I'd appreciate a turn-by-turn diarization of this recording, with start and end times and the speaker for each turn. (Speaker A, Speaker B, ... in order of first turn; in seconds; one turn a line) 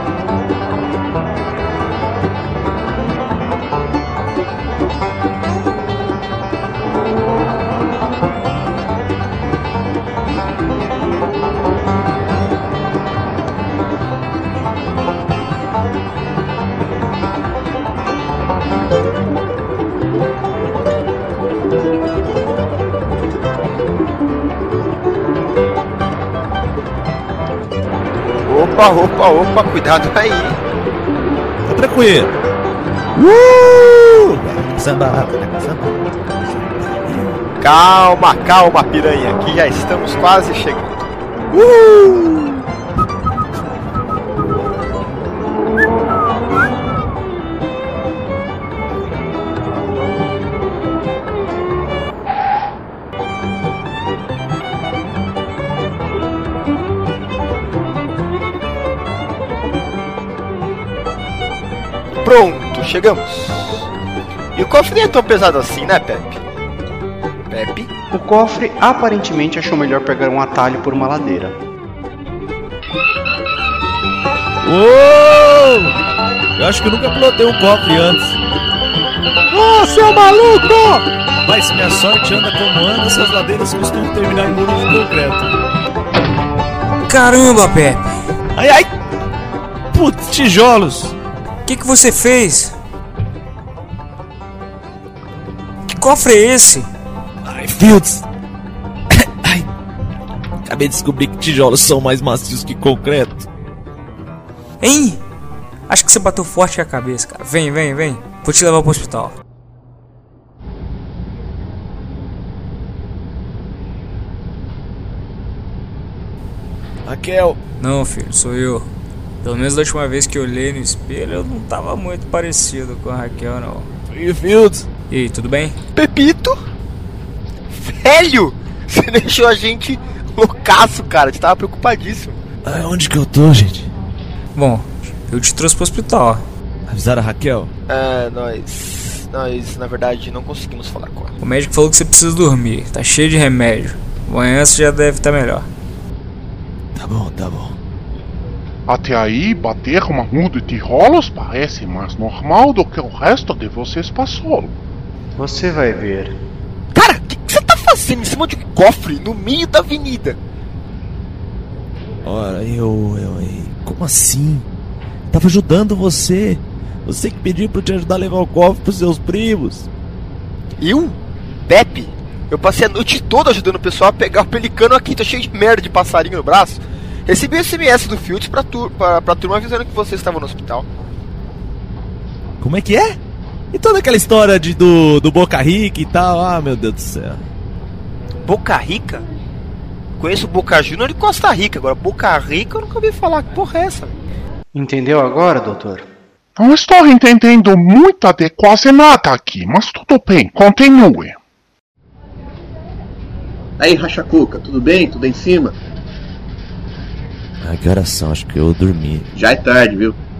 Speaker A: 28.5-30.6
Speaker B: 31.7-32.4
Speaker B: 33.2-35.8
Speaker B: 36.4-37.4
Speaker A: 37.6-41.0
Speaker B: 41.5-42.6
Speaker A: 62.2-63.9
Speaker A: 64.5-66.4
Speaker A: 67.5-67.9
Speaker C: 68.1-71.5
Speaker B: 74.6-75.9
Speaker B: 76.6-78.4
Speaker B: 79.5-80.8
Speaker B: 81.5-85.5
Speaker D: 87.1-88.1
Speaker B: 88.5-88.9
Speaker B: 89.9-91.2
Speaker D: 91.7-92.8
Speaker D: 95.9-96.9
Speaker B: 97.5-98.2
Speaker B: 100.7-103.5
Speaker D: 104.8-105.2
Speaker D: 105.9-109.3
Speaker B: 117.0-117.6
Speaker D: 117.8-118.9
Speaker D: 119.4-123.9
Speaker B: 124.1-124.9
Speaker D: 125.1-125.8
Speaker A: 126.0-126.6
Speaker A: 127.7-132.4
Speaker B: 132.7-133.9
Speaker D: 134.6-136.4
Speaker B: 136.9-137.7
Speaker A: 137.9-141.3
Speaker D: 141.4-145.7
Speaker B: 147.0-147.8
Speaker E: 148.9-154.8
Speaker C: 155.4-156.4
Speaker A: 156.9-160.4
Speaker B: 162.2-164.7
Speaker B: 165.3-169.9
Speaker A: 170.8-171.2
Speaker A: 171.7-180.9
Speaker B: 182.6-183.2
Speaker B: 183.7-187.4
Speaker A: 188.5-189.2
Speaker A: 190.2-194.1
Speaker C: 194.8-196.1
Speaker E: 196.6-201.4
Speaker F: 203.8-205.7
Speaker B: 207.6-209.3
Speaker F: 209.4-210.2